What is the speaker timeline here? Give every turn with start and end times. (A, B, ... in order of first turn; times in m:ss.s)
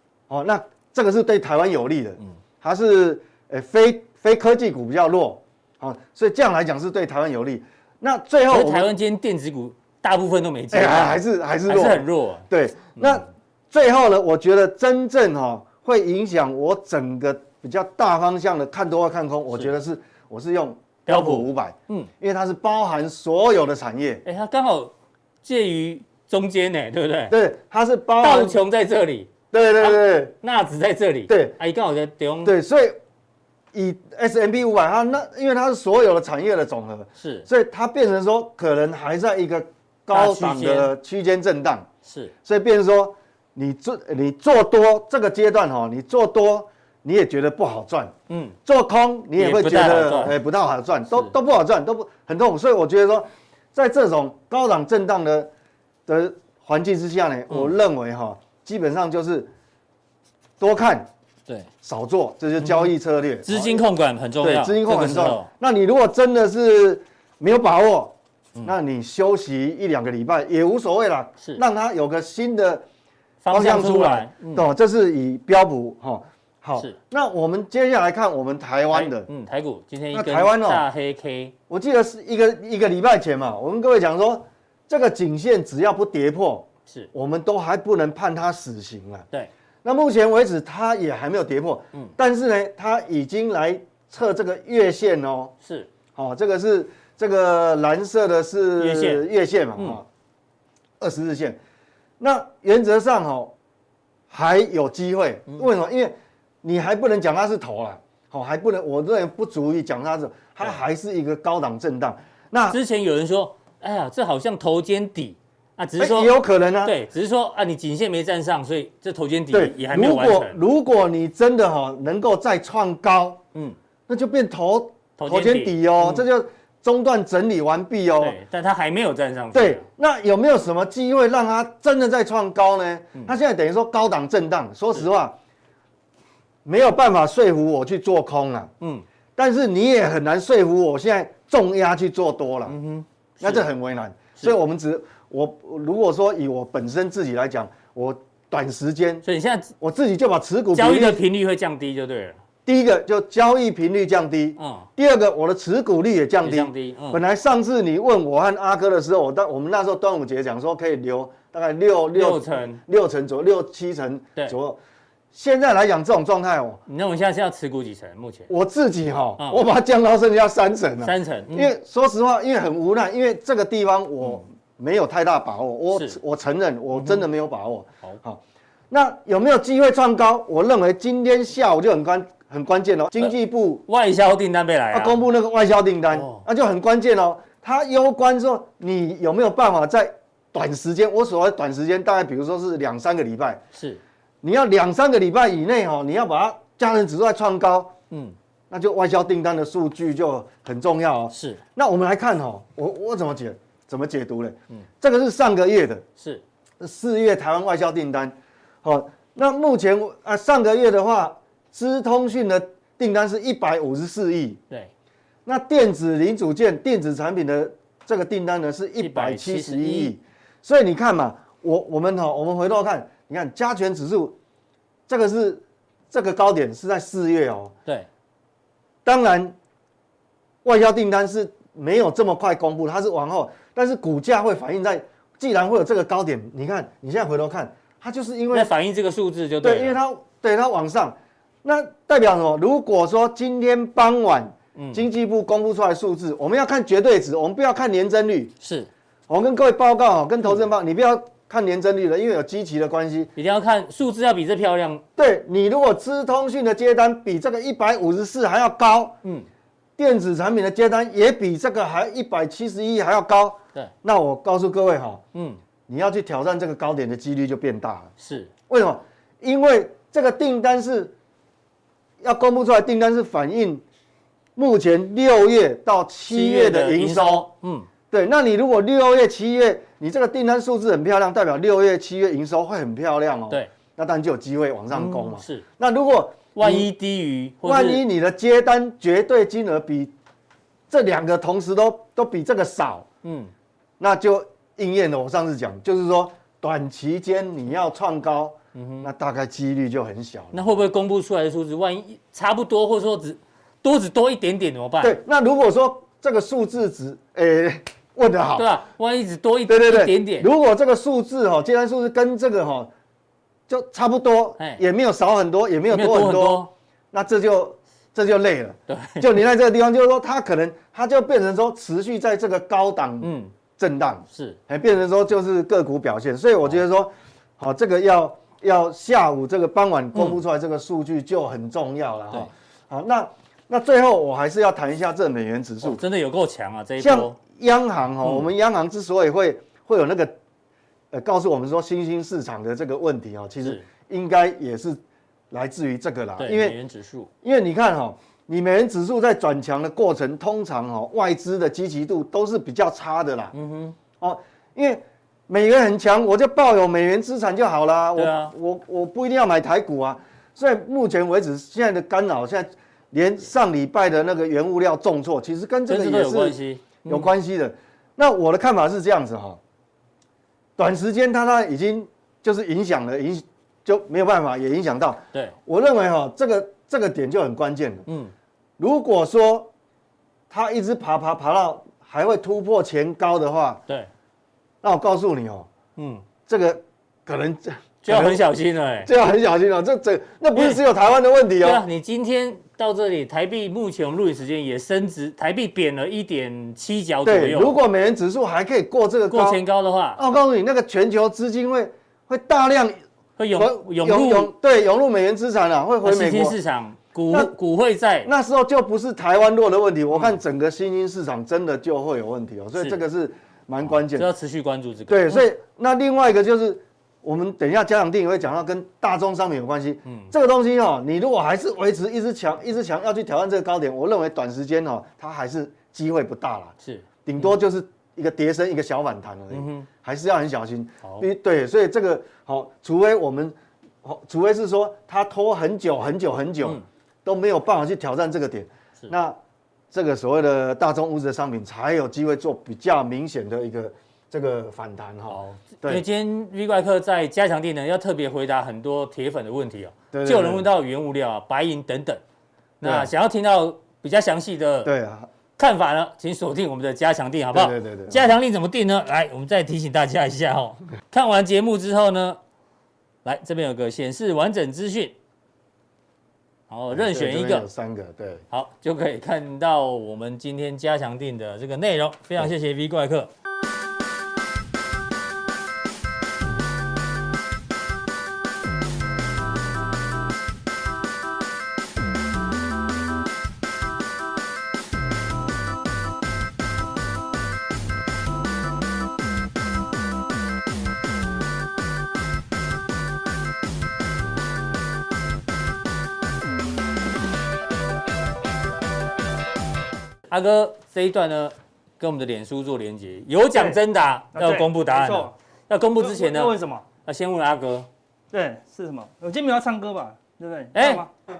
0:00.3-0:08.9 A
0:08.5-0:12.4 B
0:10.7-0:24.2 A
0:21.1-0:22.1 B
0:24.2-0:27.3 B
0:27.3-0:28.6 A
0:28.2-0:32.5 B
0:29.5-0:30.3 A
0:31.3-0:31.6 A
0:32.4-0:33.0 A
0:33.7-0:41.9 A
0:37.2-0:37.5 B
0:40.1-0:40.9 B
0:42.0-0:42.3 B
0:42.4-0:48.1 A
0:48.3-0:48.6 B
0:48.6-0:55.5 A
0:49.4-0:50.3 B
0:56.1-0:59.5 A
1:00.6-1:01.1 A
1:01.8-1:03.8 A
1:02.6-1:02.9 B
1:03.4-1:05.5 B
1:04.4-1:12.8 A
1:13.4-1:14.6 B
1:13.5-1:19.3 A
1:18.9-1:21.5 B
1:20.1-1:20.8 A
1:21.7-1:29.2 A
1:29.8-1:35.5 A
1:35.6-1:35.9 B
1:36.1-1:40.0 A
1:38.8-1:40.0 B
1:41.0-1:41.6 A
1:42.2-1:43.5 A
1:44.3-1:52.8 A
1:52.7-2:00.6 B
1:56.0-1:56.9 A
1:59.5-2:03.4 A
2:04.1-2:08.4 A
2:05.2-2:06.2 B
2:08.2-2:09.8 B
2:09.5-2:15.4 A
2:16.6-2:18.7 A
2:19.4-2:22.8 A
2:22.7-2:23.7 B
2:23.4-2:29.2 A
2:29.2-2:29.7 B
2:29.8-2:31.2 A
2:30.7-2:32.4 B
2:32.6-2:44.8 A
2:34.6-2:34.9 B
2:36.4-2:37.2 B
2:42.1-2:42.8 B
2:45.3-2:46.8 A
2:46.9-2:48.5 B
2:48.5-3:03.8 A
2:51.0-2:51.7 B
2:55.9-2:56.2 B
2:57.0-2:57.2 B
3:03.9-3:05.2 B
3:04.9-3:13.6 A
3:06.1-3:06.4 B
3:13.7-3:14.0 B
3:14.4-3:17.9 A
3:18.1-3:18.4 B
3:18.7-3:26.0 A
3:21.3-3:21.6 B
3:26.2-3:26.4 B
3:26.8-3:34.6 A
3:35.4-3:44.4 A
3:39.0-3:40.1 B
3:45.1-3:47.7 A
3:49.0-3:49.5 A
3:50.6-3:58.7 A
3:58.5-4:00.0 B
3:59.6-4:08.5 A
4:04.8-4:05.0 B
4:08.6-4:08.9 B
4:09.3-4:13.3 A
4:13.4-4:15.0 B
4:15.2-4:19.2 A
4:20.0-4:25.2 A
4:25.3-4:25.6 B
4:25.9-4:28.1 A
4:28.2-4:28.5 B
4:28.7-4:31.1 A
4:32.2-4:33.8 A
4:34.6-4:37.5 A
4:36.3-4:37.9 B
4:38.1-4:46.9 A
4:44.9-4:45.6 B
4:46.5-4:48.0 B
4:47.6-4:50.1 A
4:50.9-4:53.1 A
4:53.2-4:53.5 B
4:54.0-5:00.8 A
4:58.7-4:59.1 B
5:00.5-5:05.2 B
5:05.0-5:08.7 A
5:08.6-5:10.5 B
5:09.7-5:12.9 A
5:13.7-5:36.0 A
5:15.9-5:16.7 B
5:18.9-5:19.3 B
5:23.2-5:23.5 B
5:24.3-5:24.6 B
5:35.8-5:37.4 B
5:37.0-5:40.3 A
5:38.2-5:38.5 B
5:41.1-5:45.0 A
5:45.5-5:46.8 A
5:46.4-5:47.3 B
5:47.4-5:53.5 A
5:53.5-5:54.0 B
5:54.2-6:09.6 A
5:58.2-5:58.5 B
6:05.9-6:07.3 B
6:10.8-6:18.0 A
6:18.1-6:18.3 B
6:18.8-6:19.7 A
6:20.5-6:23.8 A
6:24.8-6:25.7 A
6:26.0-6:26.2 B
6:26.4-6:28.4 A
6:28.0-6:29.1 B
6:29.0-6:31.8 A
6:30.5-6:30.8 B
6:31.6-6:37.8 B
6:37.2-6:39.6 A
6:39.3-6:40.2 B
6:40.2-6:43.0 A
6:43.4-6:44.5 B
6:43.5-6:46.6 A
6:46.0-6:48.3 B
6:48.2-6:54.3 A
6:53.9-6:55.4 B
6:55.1-7:06.7 A
7:00.0-7:00.3 B
7:06.8-7:07.5 B
7:07.2-7:19.4 A
7:09.5-7:09.9 B
7:19.9-7:26.0 A
7:25.3-7:32.2 B
7:30.1-7:30.7 A
7:32.8-7:33.1 A
7:32.8-7:34.9 B
7:34.8-7:35.3 A
7:35.6-7:42.4 B
7:37.5-7:38.2 A
7:43.2-7:45.1 B
7:46.7-7:47.7 B
7:46.9-7:48.4 A
7:48.5-7:53.3 B
8:20.3-8:26.5 B
8:24.3-8:25.3 C
8:26.0-8:26.8 C
8:27.0-8:27.9 B
8:28.3-8:31.1 C
8:30.7-8:31.0 B